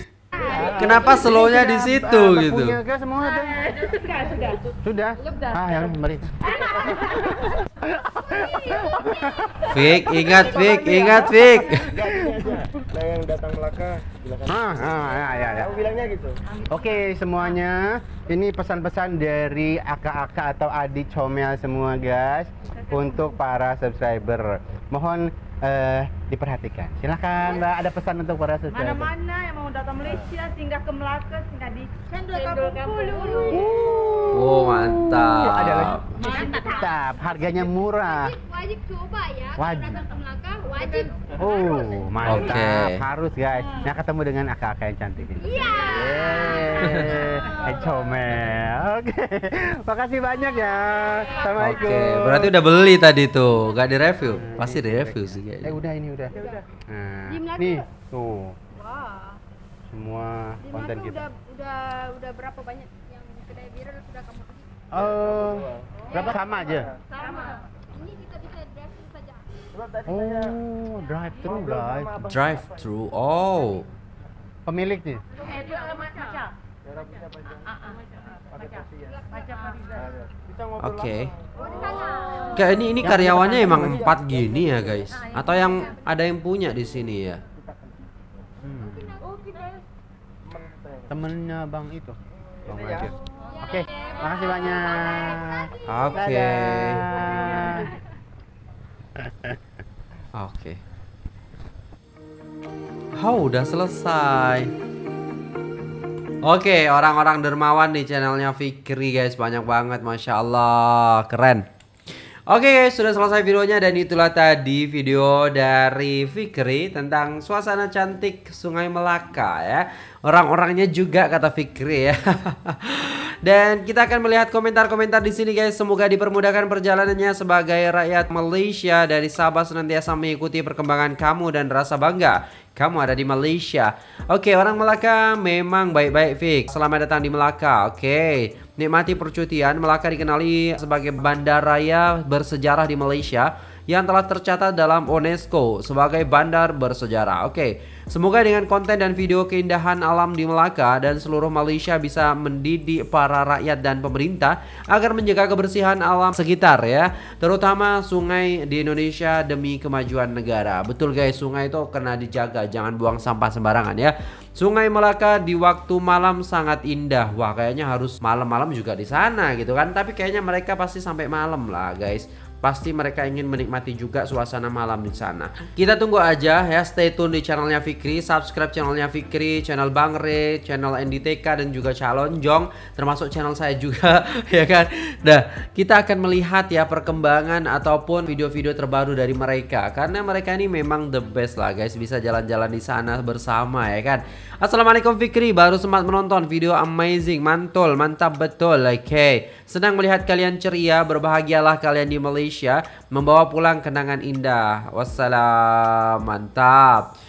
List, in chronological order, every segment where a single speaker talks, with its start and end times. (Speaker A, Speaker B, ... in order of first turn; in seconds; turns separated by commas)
Speaker A: 0.3-0.8, Speaker B: 0.3-3.9, Speaker C: 0.7-2.8, Speaker D: 3.9-4.5, Speaker B: 4.8-12.7, Speaker C: 9.6-12.0, Speaker E: 11.9-14.5, Speaker B: 14.4-15.8, Speaker E: 15.6-16.4, Speaker B: 16.7-29.1, Speaker D: 28.7-33.5, Speaker B: 30.0-30.3, Speaker A: 32.3-33.7, Speaker B: 33.5-38.4, Speaker C: 34.3-36.3, Speaker D: 36.2-36.8, Speaker A: 37.9-41.8, Speaker B: 39.5-40.0, Speaker B: 41.3-52.5, Speaker C: 42.2-43.0, Speaker A: 45.4-47.5, Speaker E: 46.1-46.6, Speaker C: 46.8-47.1, Speaker C: 51.6-55.8, Speaker B: 54.3-58.5, Speaker A: 57.3-57.8, Speaker A: 58.8-59.4, Speaker B: 59.9-61.2, Speaker A: 60.6-64.8, Speaker B: 64.9-66.9, Speaker E: 65.4-66.9, Speaker A: 67.1-69.4, Speaker E: 69.8-70.5, Speaker B: 70.0-72.3, Speaker E: 71.4-72.2, Speaker C: 72.2-73.9, Speaker B: 74.7-75.2, Speaker A: 75.5-76.3, Speaker D: 75.5-76.5, Speaker E: 77.1-77.7, Speaker E: 78.5-79.0, Speaker A: 79.1-80.0, Speaker E: 80.0-81.1, Speaker C: 80.8-81.3, Speaker A: 81.6-82.6, Speaker E: 81.6-82.5, Speaker C: 82.5-87.4, Speaker B: 83.0-84.2, Speaker E: 84.4-84.9, Speaker B: 88.6-89.2, Speaker A: 88.8-89.5, Speaker B: 91.1-97.9, Speaker A: 93.5-95.6, Speaker C: 95.8-97.0, Speaker C: 100.3-100.8, Speaker C: 103.2-104.7, Speaker C: 106.4-111.6, Speaker C: 112.5-207.1